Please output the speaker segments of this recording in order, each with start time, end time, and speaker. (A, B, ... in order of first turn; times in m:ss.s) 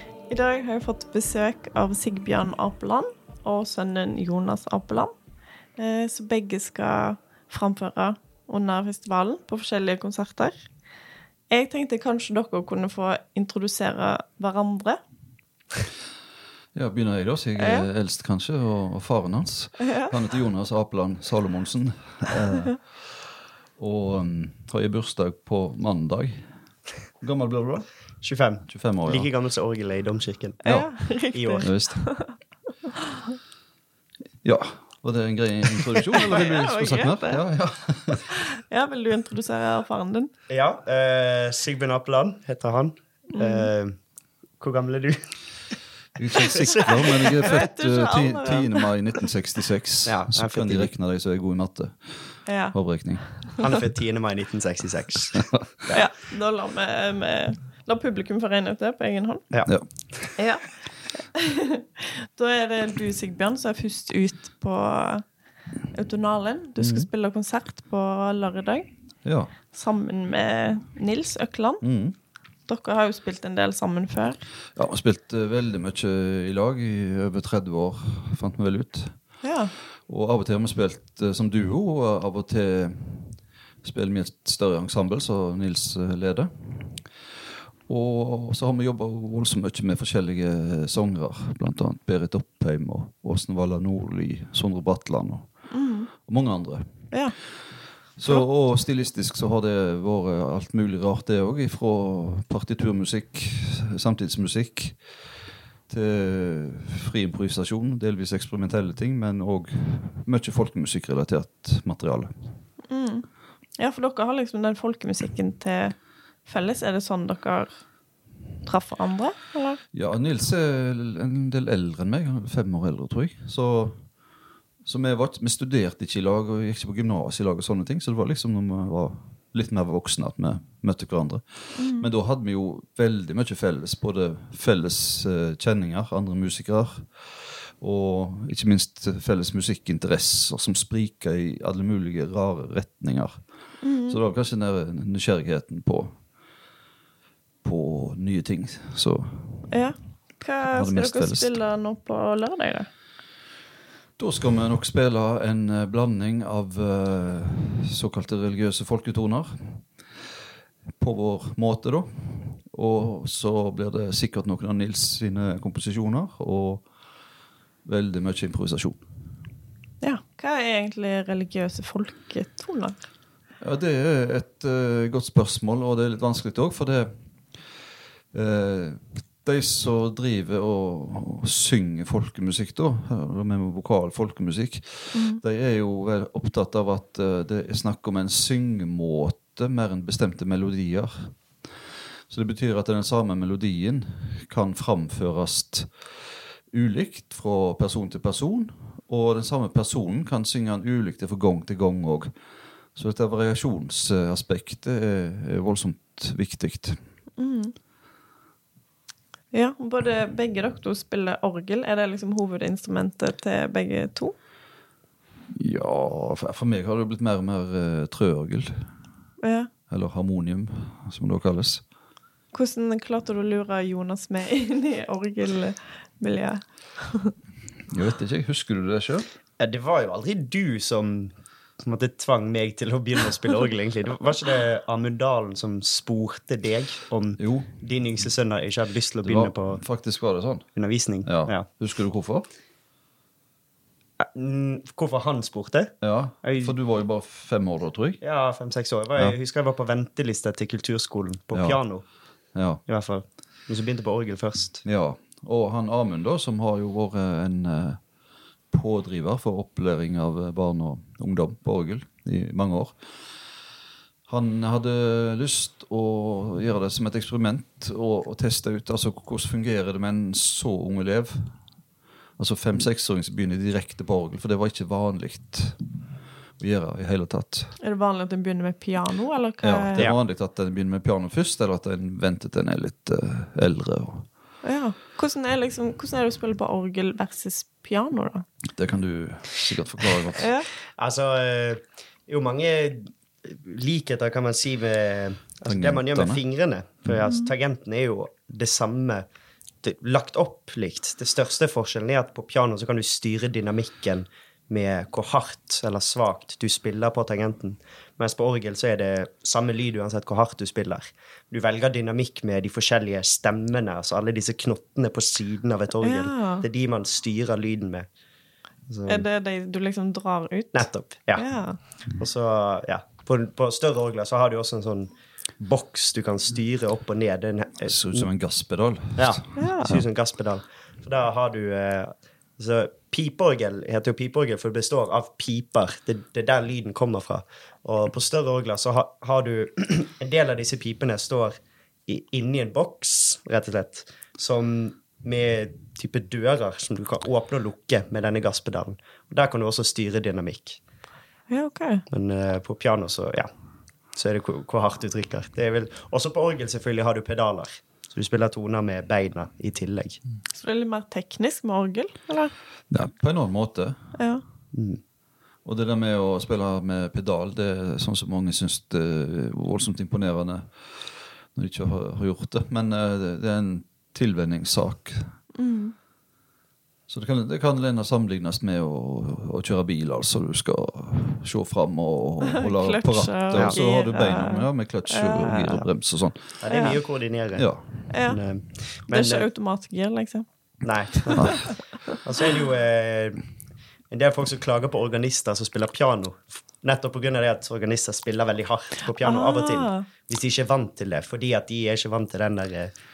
0:00.3-0:05.1 A
0:05.8-0:10.7 A
0:11.5-0:15.0 A
0:16.7-0:26.5 B
0:17.6-0:17.9 A
0:19.8-0:20.1 A
0:27.2-0:27.9 B
0:28.2-0:30.6 C
0:28.4-0:29.3 B
0:30.6-0:32.0 B
0:30.6-0:32.3 A
0:31.3-0:32.0 C
0:34.4-0:38.3 B
0:36.3-0:40.3 A
0:40.5-0:44.0 C
0:43.3-0:43.7 A
0:44.6-0:45.6 C
0:46.2-0:53.6 B
0:46.3-0:47.2 C
0:47.4-0:48.9 A
0:50.0-0:50.9 C
0:52.4-0:53.6 A
0:53.6-0:56.0 C
0:55.9-1:08.9 A
0:59.5-1:00.4 C
1:06.8-1:07.1 B
1:09.2-1:09.6 B
1:09.5-1:11.8 A
1:11.8-1:12.2 B
1:12.7-1:14.4 A
1:14.8-1:27.2 B
1:19.4-1:19.7 A
1:27.9-1:37.4 B
1:35.7-1:36.1 A
1:37.1-1:37.4 A
1:38.2-1:52.7 B
1:52.9-1:58.0 A
1:58.6-1:59.8 A
1:59.9-2:04.2 B
2:04.8-2:26.2 B
2:11.7-2:12.1 A
2:23.8-2:24.2 A
2:27.6-2:29.8 B
2:29.7-2:32.9 A
2:30.6-2:31.6 B
2:34.2-2:40.0 B
2:41.0-2:46.9 B
2:47.8-2:49.1 B
2:50.0-2:53.1 A
2:53.6-3:22.3 B
3:05.1-3:05.4 A
3:22.9-3:27.1 B
3:27.4-3:27.8 A
3:29.5-3:34.3 A
3:35.5-3:38.9 B
3:39.4-3:39.7 A
3:39.9-3:41.8 B
3:42.5-3:47.3 A
3:47.9-3:49.3 B
3:49.6-3:59.8 C
3:57.4-3:57.8 B
3:59.2-4:02.5 B
4:00.7-4:01.7 C
4:04.2-4:06.8 C
4:06.0-4:08.2 B
4:08.2-4:12.0 C
4:11.5-4:12.0 B
4:12.5-4:12.8 B
4:12.8-4:14.8 C
4:14.8-4:18.1 B
4:18.7-4:23.2 B
4:24.3-4:31.6 B
4:32.4-4:35.9 B
4:36.6-4:37.8 B
4:37.8-4:40.1 A
4:39.6-4:44.3 B
4:44.6-4:48.4 A
4:48.7-4:50.5 B
4:50.4-4:50.7 A
4:50.9-4:59.2 C
4:55.6-4:56.4 B
4:59.8-5:18.1 C
5:16.0-5:16.6 A
5:18.9-5:19.2 C
5:19.1-5:21.8 A
5:20.7-5:28.3 C
5:27.8-5:30.0 B
5:29.1-5:41.5 C
5:29.5-5:29.9 A
5:42.1-5:50.8 C
5:51.5-5:52.0 A
5:52.1-5:53.5 C
5:54.1-6:00.2 C
6:00.5-6:02.6 A
6:02.9-6:04.1 B
6:04.2-6:04.4 A
6:04.7-6:05.0 C
6:05.6-6:15.4 B
6:15.5-6:15.9 A
6:17.1-6:27.0 B
6:22.4-6:25.8 A
6:23.5-6:23.8 C
6:26.6-6:29.4 C
6:26.7-6:27.0 A
6:27.5-6:28.1 B
6:28.1-6:30.5 A
6:30.8-6:33.4 C
6:34.1-6:42.9 C
6:39.1-6:40.1 A